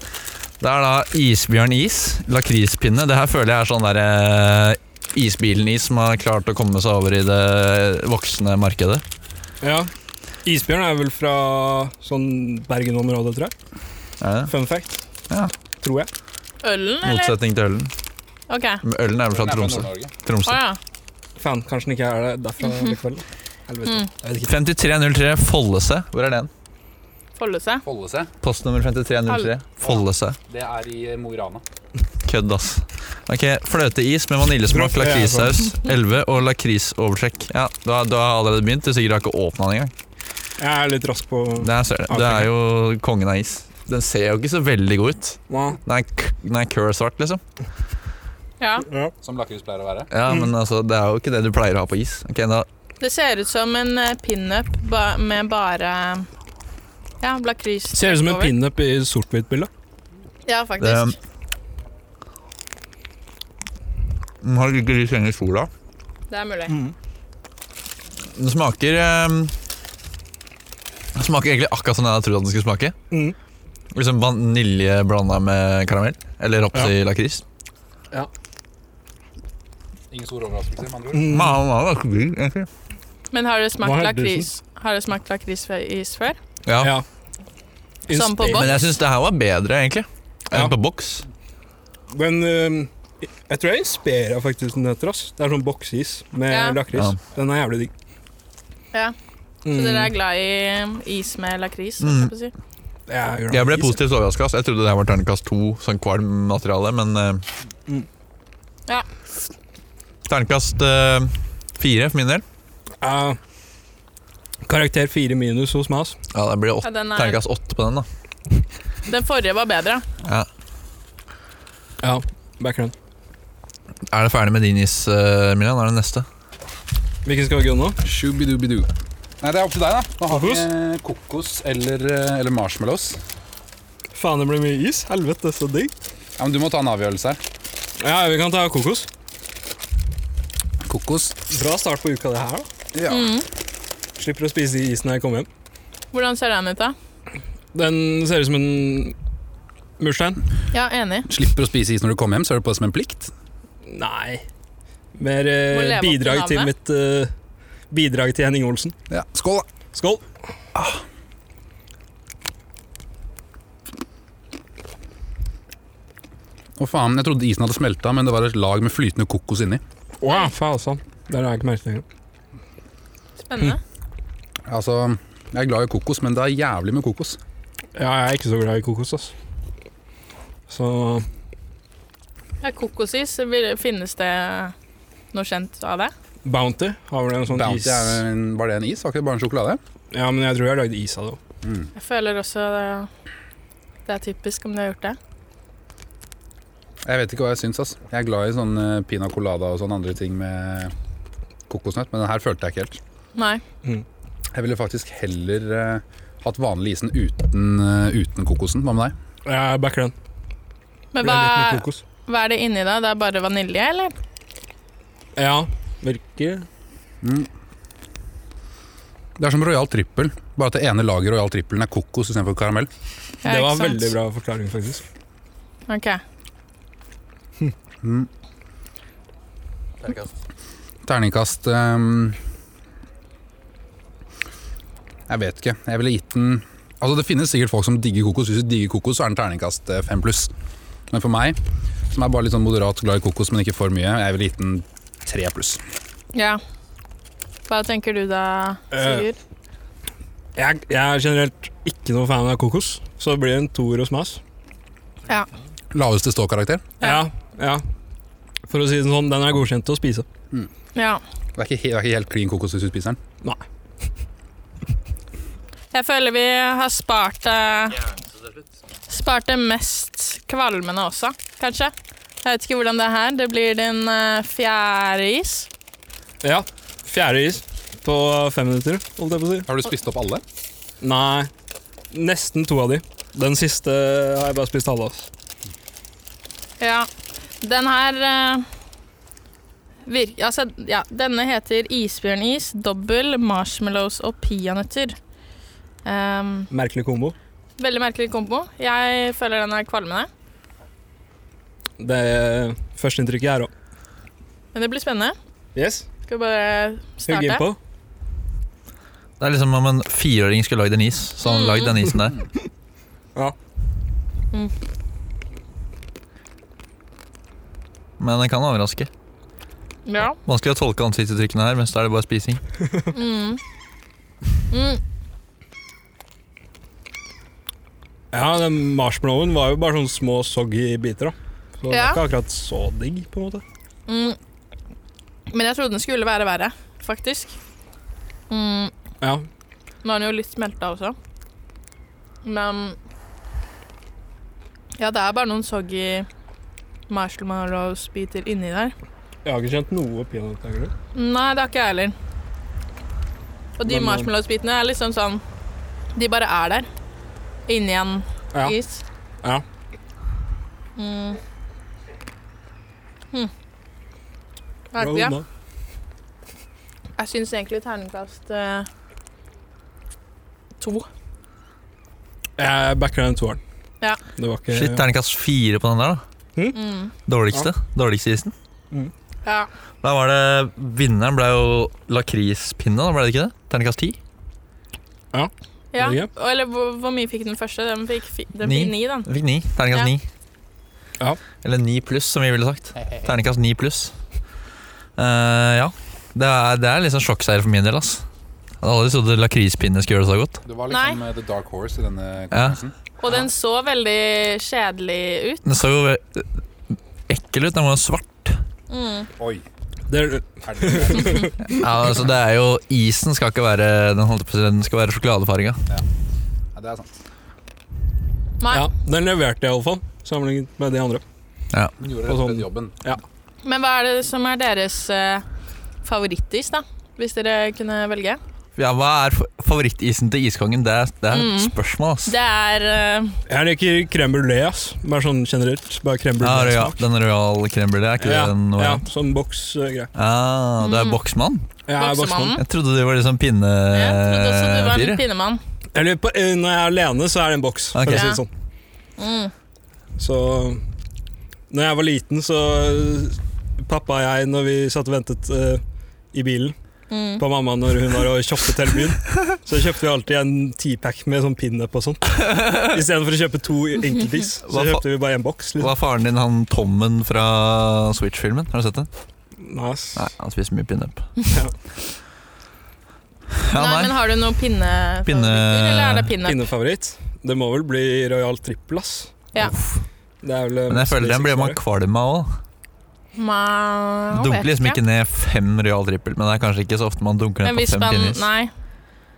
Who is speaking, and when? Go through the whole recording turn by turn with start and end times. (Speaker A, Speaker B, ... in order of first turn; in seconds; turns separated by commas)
Speaker A: 0.6-9.0, Speaker B: 9.6-9.9, Speaker B: 10.4-13.5, Speaker A: 14.2-14.5, Speaker B: 14.5-14.9, Speaker B: 15.8-16.1, Speaker C: 16.6-17.3, Speaker A: 17.0-17.9, Speaker C: 18.5-18.8, Speaker A: 18.8-20.6, Speaker D: 19.3-20.1, Speaker C: 20.4-20.8, Speaker B: 21.4-24.5, Speaker C: 22.6-22.9, Speaker A: 24.4-26.5, Speaker C: 27.4-27.8, Speaker D: 27.8-28.3, Speaker A: 28.4-30.4, Speaker C: 29.3-29.5, Speaker D: 29.8-31.6, Speaker A: 32.2-39.9, Speaker B: 34.7-35.6, Speaker B: 40.6-42.5, Speaker A: 41.6-47.4, Speaker B: 45.5-45.8, Speaker C: 48.6-48.9, Speaker B: 48.9-49.1, Speaker D: 49.2-50.1, Speaker A: 50.1-52.7, Speaker C: 53.0-56.3, Speaker C: 57.2-58.5, Speaker B: 57.9-59.7, Speaker C: 60.5-61.1, Speaker A: 60.8-61.1, Speaker A: 64.4-65.7, Speaker C: 66.3-66.8, Speaker B: 66.7-66.9, Speaker A: 68.2-69.5, Speaker A: 71.1-73.0, Speaker B: 73.1-73.3, Speaker A: 73.9-77.4, Speaker D: 80.1-81.3, Speaker B: 81.1-81.6, Speaker A: 81.3-82.7, Speaker C: 83.3-86.4, Speaker B: 83.8-84.5, Speaker A: 86.6-86.9, Speaker B: 88.1-88.7, Speaker C: 88.1-88.7, Speaker A: 88.5-91.2, Speaker B: 92.1-97.9, Speaker C: 96.5-96.8, Speaker A: 96.9-97.2, Speaker B: 99.6-100.1, Speaker C: 99.7-102.5, Speaker A: 102.0-102.3, Speaker B: 103.1-104.0, Speaker A: 103.5-107.4, Speaker A: 110.3-112.4, Speaker B: 113.0-113.4, Speaker B: 114.7-116.2, Speaker A: 116.3-118.1, Speaker C: 116.8-117.4, Speaker C: 119.1-120.0, Speaker A: 120.2-120.5, Speaker B: 122.0-122.9, Speaker A: 124.1-126.3, Speaker B: 127.2-128.0, Speaker D: 128.0-128.9, Speaker D: 129.4-133.2, Speaker B: 130.3-130.7, Speaker B: 134.1-135.9, Speaker D: 136.4-137.4, Speaker B: 138.0-139.1, Speaker D: 140.8-141.4, Speaker B: 141.4-142.7, Speaker D: 142.9-143.3, Speaker C: 143.1-143.5, Speaker B: 144.2-145.5, Speaker C: 146.1-146.9, Speaker B: 147.7-149.1, Speaker B: 150.0-150.4, Speaker C: 150.7-151.3, Speaker D: 151.3-153.3, Speaker B: 153.8-154.4, Speaker B: 155.1-157.3, Speaker C: 155.7-156.7, Speaker B: 157.9-158.9, Speaker D: 159.1-159.7, Speaker B: 159.9-160.2, Speaker D: 160.7-161.0, Speaker D: 166.8-169.8, Speaker B: 170.2-172.0, Speaker C: 173.4-173.8, Speaker D: 174.7-177.4, Speaker B: 177.9-179.3, Speaker B: 180.7-181.3, Speaker C: 182.6-184.7, Speaker C: 185.3-186.1, Speaker B: 186.4-188.2, Speaker D: 187.5-189.8, Speaker B: 190.1-191.4, Speaker D: 191.6-191.9, Speaker C: 191.9-193.1, Speaker C: 194.1-195.2, Speaker D: 197.0-200.9, Speaker D: 201.7-203.0, Speaker C: 203.3-203.6, Speaker D: 204.5-209.2, Speaker B: 209.4-210.1, Speaker C: 211.1-214.1, Speaker B: 211.2-212.0, Speaker B: 215.3-216.7, Speaker D: 217.2-217.5, Speaker D: 219.4-222.9, Speaker C: 223.4-224.1, Speaker B: 223.4-225.0, Speaker C: 225.9-226.2, Speaker D: 228.0-228.3, Speaker A: 230.0-230.3, Speaker D: 231.0-232.4, Speaker D: 235.3-240.5, Speaker D: 241.1-245.8, Speaker C: 246.3-246.6, Speaker C: 247.7-249.4, Speaker B: 248.9-249.3, Speaker B: 250.6-254.4, Speaker D: 255.9-256.9, Speaker B: 257.0-257.8, Speaker B: 258.7-260.2, Speaker C: 260.9-261.2, Speaker D: 261.6-263.2, Speaker C: 265.9-268.1, Speaker C: 269.1-275.7, Speaker B: 276.4-279.7, Speaker D: 279.7-280.4, Speaker B: 281.0-281.5, Speaker B: 282.1-285.3, Speaker C: 286.8-287.1, Speaker C: 287.6-288.7, Speaker C: 290.1-295.2, Speaker C: 296.0-296.7, Speaker B: 296.7-297.3, Speaker C: 297.8-300.3, Speaker B: 302.0-303.7, Speaker C: 304.7-305.4, Speaker B: 305.7-306.1, Speaker C: 306.3-307.6, Speaker B: 307.2-307.8, Speaker A: 309.4-312.4, Speaker C: 311.4-311.9, Speaker A: 318.2-319.1, Speaker C: 320.1-320.4, Speaker A: 320.4-322.6, Speaker C: 323.1-323.6, Speaker C: 324.7-325.0, Speaker B: 328.3-333.6, Speaker C: 331.9-332.2, Speaker C: 334.1-334.4, Speaker C: 335.5-337.6, Speaker C: 338.5-338.9, Speaker B: 339.2-339.4, Speaker C: 340.0-341.1, Speaker C: 342.4-343.0, Speaker C: 345.0-346.3, Speaker C: 347.1-348.9, Speaker B: 349.4-350.9, Speaker C: 351.1-352.1, Speaker C: 353.8-355.4, Speaker B: 353.9-354.3, Speaker C: 356.1-356.9, Speaker C: 357.7-359.0, Speaker C: 361.0-361.4, Speaker C: 364.9-365.4, Speaker B: 365.0-365.4, Speaker C: 367.2-368.9, Speaker C: 370.8-371.1, Speaker B: 372.6-373.6, Speaker B: 374.3-375.0, Speaker A: 374.7-376.2, Speaker C: 376.7-377.1, Speaker A: 377.2-378.5, Speaker C: 379.4-379.7, Speaker A: 380.0-384.2, Speaker B: 385.3-386.3, Speaker C: 385.9-389.3, Speaker A: 388.6-390.2, Speaker A: 391.6-394.1, Speaker D: 392.9-393.3, Speaker A: 395.2-398.2, Speaker A: 398.8-400.6, Speaker D: 400.6-402.9, Speaker C: 400.9-401.2, Speaker A: 402.5-402.8, Speaker C: 403.2-405.6, Speaker A: 405.6-406.5, Speaker A: 407.3-408.6, Speaker C: 408.9-409.3, Speaker D: 409.4-409.6, Speaker B: 410.1-411.8, Speaker D: 410.6-411.5, Speaker A: 411.6-415.8, Speaker D: 416.7-417.1, Speaker C: 418.6-418.9, Speaker B: 418.7-421.2, Speaker D: 422.0-422.9, Speaker B: 422.2-423.2, Speaker C: 423.6-425.4, Speaker C: 426.0-428.4, Speaker A: 428.8-432.3, Speaker C: 431.3-433.4, Speaker B: 433.5-437.0, Speaker A: 436.4-439.0, Speaker B: 438.2-440.1, Speaker A: 440.1-441.7, Speaker C: 440.8-441.2, Speaker B: 441.9-442.6, Speaker C: 441.9-442.6, Speaker A: 442.6-445.2, Speaker C: 443.9-445.6, Speaker B: 445.9-448.5, Speaker A: 447.9-448.4, Speaker C: 448.1-448.4, Speaker C: 449.2-449.5, Speaker B: 450.2-450.8, Speaker B: 451.7-455.8, Speaker B: 456.3-456.8, Speaker C: 457.1-457.4, Speaker B: 457.4-465.9, Speaker A: 462.4-462.9, Speaker A: 464.7-465.0, Speaker A: 465.8-469.1, Speaker B: 469.6-470.3, Speaker A: 470.1-471.4, Speaker B: 471.5-471.7, Speaker A: 473.6-474.1, Speaker C: 473.7-476.7, Speaker A: 475.2-476.3, Speaker B: 476.4-479.4, Speaker A: 479.6-480.1, Speaker B: 480.4-481.8, Speaker A: 480.9-482.6, Speaker C: 483.4-485.0, Speaker A: 484.3-488.4, Speaker C: 487.6-488.7